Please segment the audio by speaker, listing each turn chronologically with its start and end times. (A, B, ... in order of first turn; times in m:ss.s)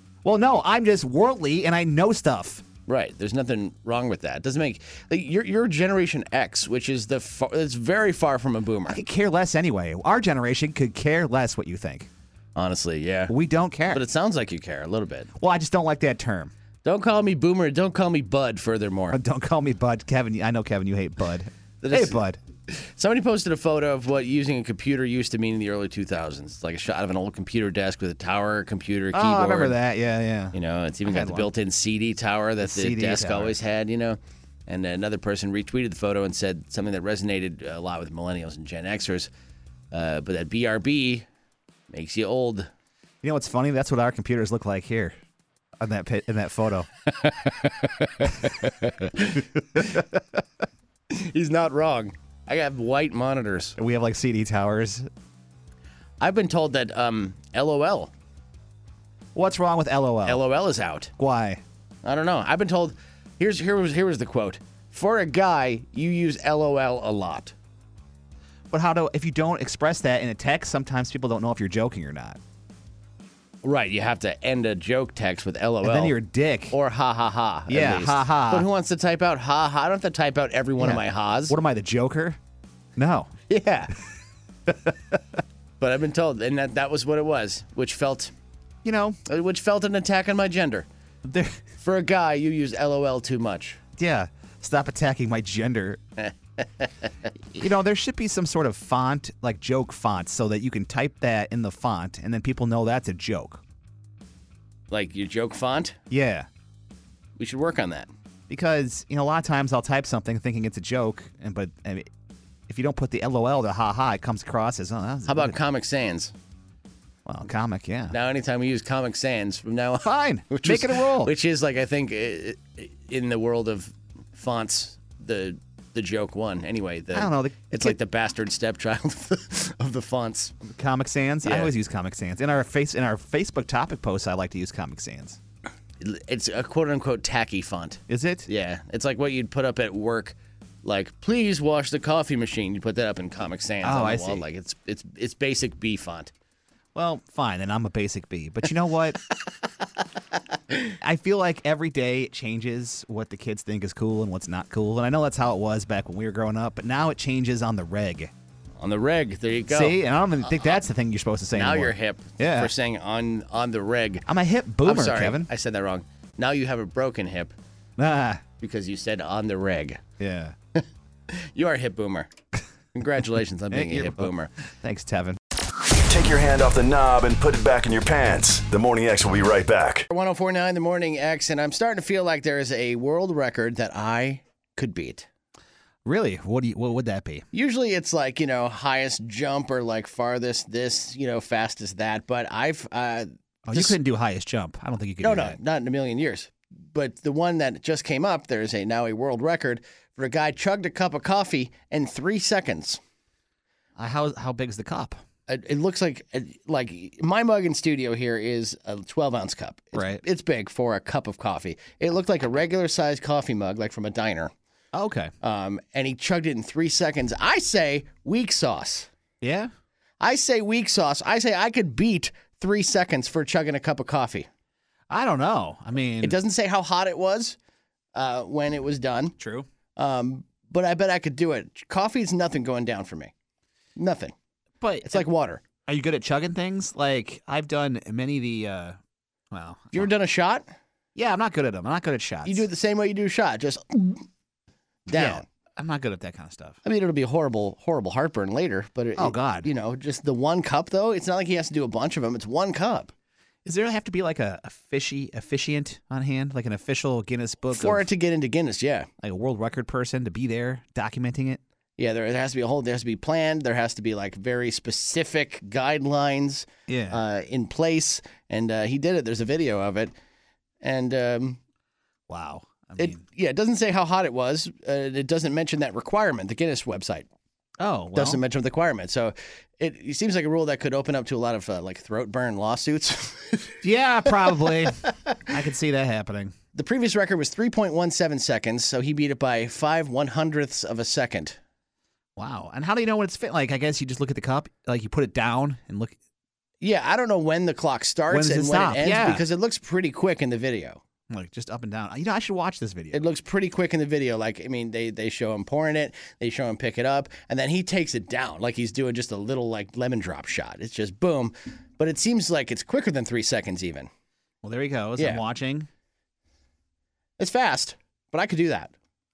0:00.2-0:02.6 A
0:02.9-0:09.0 B
0:08.9-0:12.1 A
0:12.6-0:13.3 B
0:13.3-0:14.0 A
0:13.9-0:15.3 B
0:15.4-0:16.5 A
0:16.8-0:19.2 B
0:19.1-0:22.4 A
0:21.8-0:29.8 B
0:29.1-0:31.5 A
0:30.5-0:39.3 B
0:32.6-0:33.5 A
0:39.9-0:41.2 B
0:41.9-0:42.7 B
0:43.2-0:45.2 A
0:45.8-0:46.9 A
0:47.5-0:49.4 B
0:51.1-0:53.8 B
0:53.8-0:55.1 A
0:56.2-0:58.1 B
0:59.3-1:00.4 A
1:00.2-1:01.1 B
1:01.2-1:01.6 A
1:02.0-1:07.5 B
1:08.7-1:12.4 A
1:13.6-1:16.1 B
1:15.8-1:16.7 A
1:16.7-1:21.6 B
1:17.7-1:18.7 A
1:20.8-1:22.4 A
1:23.0-1:23.3 A
1:23.5-1:23.9 B
1:24.7-1:25.2 A
1:25.8-1:28.3 B
1:28.8-1:29.2 A
1:29.3-1:30.9 B
1:31.2-1:31.6 A
1:31.8-1:33.8 B
1:34.0-1:36.0 A
1:36.2-1:37.1 B
1:37.5-1:43.6 A
1:44.9-1:46.0 B
1:46.1-1:46.5 A
1:47.4-1:48.1 B
1:48.5-1:52.1 A
1:52.7-1:55.6 A
1:55.3-1:56.3 B
1:57.2-1:58.1 A
1:58.1-2:10.5 B
2:00.0-2:01.3 A
2:07.1-2:08.0 A
2:10.6-2:15.4 A
2:11.4-2:11.7 B
2:16.0-2:26.3 B
2:18.1-2:18.5 A
2:23.8-2:24.4 A
2:26.9-2:29.2 A
2:31.0-2:38.3 A
2:38.8-2:40.8 B
2:39.7-2:42.7 A
2:41.5-2:44.2 B
2:44.3-2:45.5 A
2:44.8-2:47.5 B
2:48.0-2:48.4 A
2:48.6-2:50.0 B
2:50.2-2:50.5 A
2:50.8-2:52.3 B
2:52.9-2:54.5 B
2:53.7-2:55.4 A
2:56.0-3:00.1 C
3:00.1-3:05.3 B
3:06.0-3:07.4 A
3:07.5-3:13.9 B
3:13.6-3:15.6 A
3:15.2-3:23.0 B
3:24.0-3:25.2 A
3:25.5-3:34.5 B
3:29.9-3:30.2 A
3:34.9-3:35.3 A
3:35.4-3:39.1 B
3:39.4-3:39.7 A
3:40.2-3:44.5 B
3:45.1-3:46.4 A
3:46.2-3:47.6 B
3:48.1-3:49.3 B
3:49.4-3:49.7 A
3:50.0-3:53.3 B
3:54.0-3:54.3 B
3:54.8-3:55.3 A
3:55.0-3:55.6 B
3:55.8-3:59.0 A
3:59.5-4:00.1 A
3:59.9-4:00.7 B
4:01.1-4:02.6 A
4:02.4-4:04.2 B
4:05.1-4:05.4 B
4:05.1-4:06.8 A
4:06.8-4:13.1 B
4:09.2-4:09.7 A
4:13.6-4:18.1 A
4:17.7-4:19.1 B
4:19.2-4:21.6 A
4:22.0-4:30.1 B
4:26.9-4:27.2 A
4:30.8-4:31.6 B
4:32.3-4:33.2 A
4:33.0-4:37.3 B
4:37.8-4:38.4 A
4:38.1-4:43.7 B
4:43.8-4:46.5 A
4:46.7-4:51.6 B
4:52.4-4:56.2 A
4:56.8-5:01.0 B
4:58.3-4:59.4 A
5:01.3-5:03.3 A
5:03.1-5:14.1 B
5:14.6-5:15.9 A
5:17.4-5:18.9 B